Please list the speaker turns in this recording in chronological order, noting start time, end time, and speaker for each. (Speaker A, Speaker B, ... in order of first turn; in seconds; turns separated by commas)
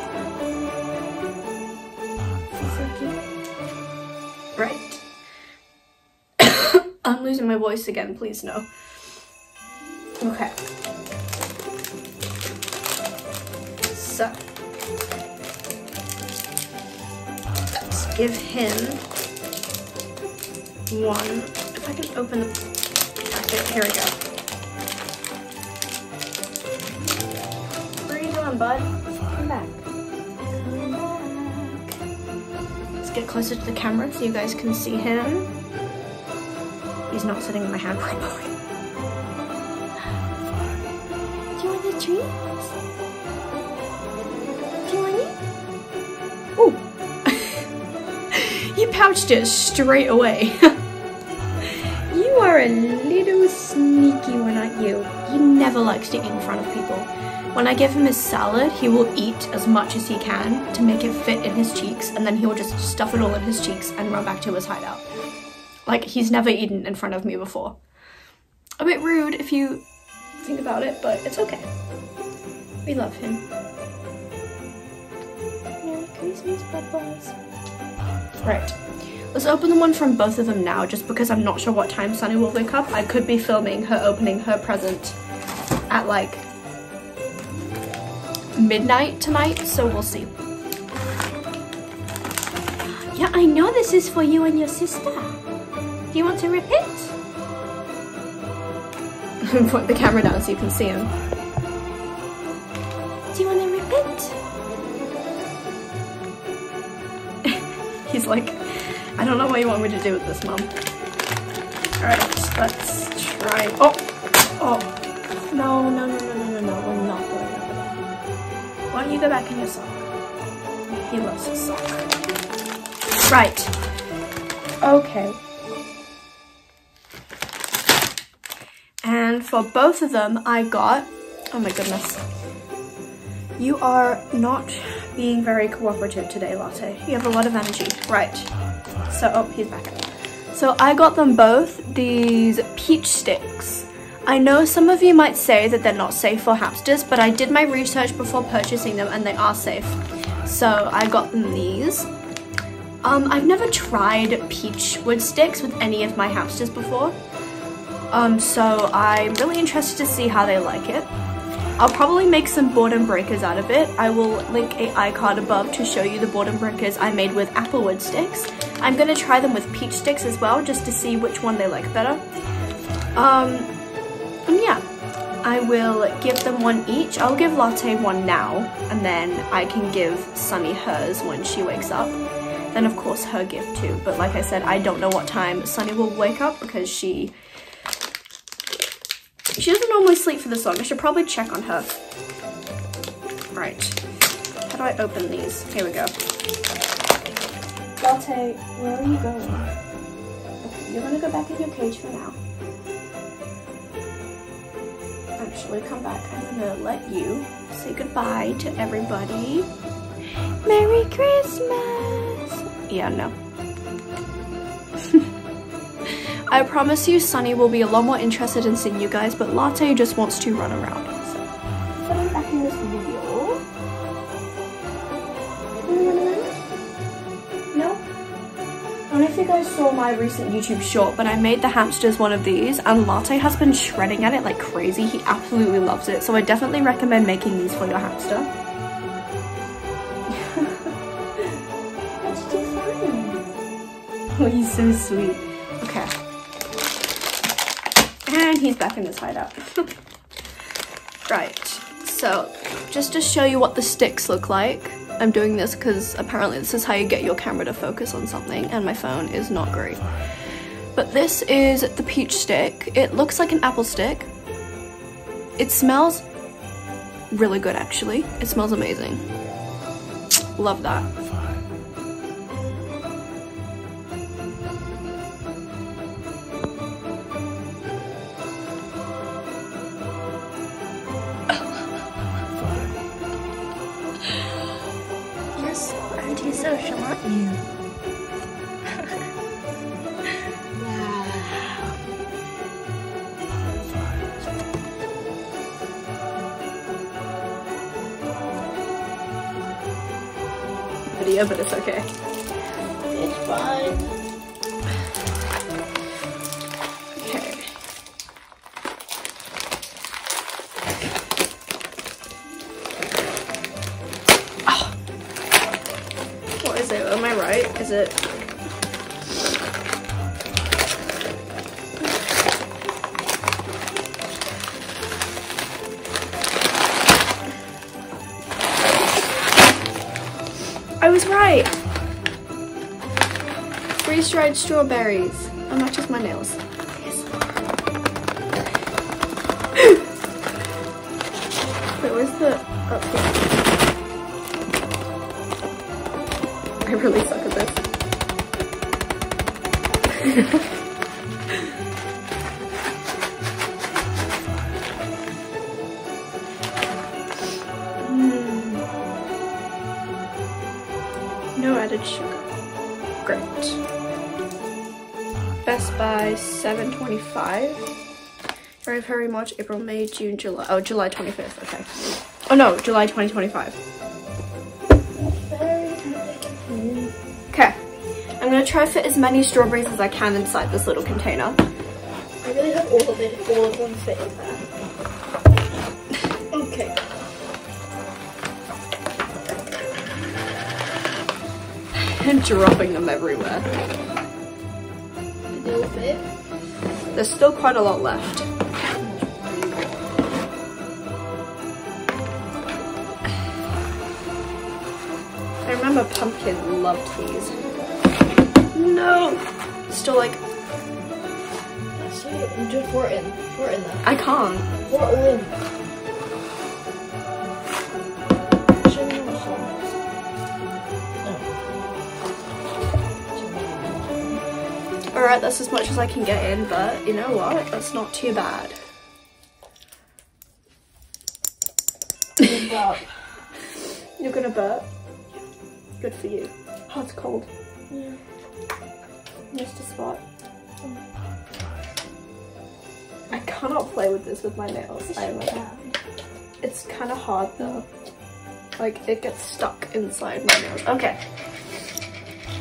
Speaker A: 2.5-3.2, Speaker A: 4.5-5.0, Speaker A: 6.4-8.7, Speaker A: 10.2-10.5, Speaker A: 13.9-14.4, Speaker A: 17.8-19.0, Speaker A: 20.9-22.6, Speaker A: 23.3-24.1, Speaker A: 28.1-29.8, Speaker A: 30.5-31.9, Speaker A: 33.0-35.5, Speaker A: 37.1-38.5, Speaker A: 41.6-42.7, Speaker A: 44.8-45.4, Speaker A: 46.6-47.7, Speaker A: 48.3-50.8, Speaker A: 51.6-65.1, Speaker A: 65.8-67.8, Speaker A: 68.8-69.8, Speaker A: 70.4-71.7, Speaker A: 72.8-73.4, Speaker A: 75.8-77.3, Speaker A: 78.4-78.8, Speaker A: 79.3-85.2, Speaker A: 85.9-86.5, Speaker A: 88.5-90.3, Speaker A: 93.1-95.4, Speaker A: 96.1-97.2, Speaker A: 99.4-101.1, Speaker A: 103.3-104.4, Speaker A: 107.5-110.7, Speaker A: 112.0-114.0, Speaker A: 114.6-114.9, Speaker A: 115.5-118.0, Speaker A: 118.9-120.1, Speaker A: 120.9-122.0, Speaker A: 123.3-123.7, Speaker A: 124.8-125.4, Speaker A: 129.0-132.2, Speaker A: 133.6-138.5, Speaker A: 139.1-152.1, Speaker A: 153.0-157.2, Speaker A: 158.1-161.1, Speaker A: 161.8-172.2, Speaker A: 173.1-173.7, Speaker A: 174.5-174.8, Speaker A: 175.4-182.2, Speaker A: 182.7-187.3, Speaker A: 189.6-192.0, Speaker A: 193.5-194.0, Speaker A: 194.7-196.1, Speaker A: 198.0-199.7, Speaker A: 200.6-202.4, Speaker A: 205.4-209.7, Speaker A: 210.6-213.3, Speaker A: 216.5-221.4, Speaker A: 222.0-223.6, Speaker A: 225.8-226.6, Speaker A: 227.7-228.0, Speaker A: 229.1-238.5, Speaker A: 240.3-240.9, Speaker A: 242.2-243.2, Speaker A: 244.3-246.1, Speaker A: 248.3-249.9, Speaker A: 251.3-260.0, Speaker A: 260.9-264.3, Speaker A: 265.6-266.2, Speaker A: 267.3-269.2, Speaker A: 270.6-271.1, Speaker A: 285.5-287.5, Speaker B: 290.8-291.7, Speaker A: 301.1-302.1, Speaker B: 303.1-304.1, Speaker A: 307.1-307.7, Speaker A: 314.6-314.9, Speaker A: 316.6-318.3, Speaker A: 331.0-331.8, Speaker A: 334.0-337.3, Speaker A: 342.0-343.4, Speaker A: 346.8-347.8, Speaker A: 350.2-350.6, Speaker A: 358.0-358.9, Speaker A: 361.6-362.5, Speaker A: 363.2-363.8, Speaker A: 365.6-367.9, Speaker A: 368.8-373.8, Speaker B: 375.2-377.1, Speaker A: 377.5-377.8, Speaker A: 378.4-381.6, Speaker B: 382.4-384.6, Speaker B: 386.5-387.0, Speaker A: 391.9-393.7, Speaker B: 395.5-396.2, Speaker A: 397.1-398.5, Speaker B: 399.0-400.1, Speaker A: 405.6-407.5, Speaker A: 408.7-410.4, Speaker B: 411.9-414.0, Speaker A: 414.0-414.7, Speaker B: 414.9-415.6, Speaker B: 418.8-419.7, Speaker B: 423.3-424.4, Speaker A: 425.1-428.8, Speaker B: 432.4-433.1, Speaker A: 434.2-434.9, Speaker A: 436.0-437.5, Speaker B: 437.9-438.2, Speaker A: 439.5-440.2, Speaker A: 443.3-445.7, Speaker B: 445.1-445.9, Speaker A: 446.6-447.9, Speaker A: 448.8-451.2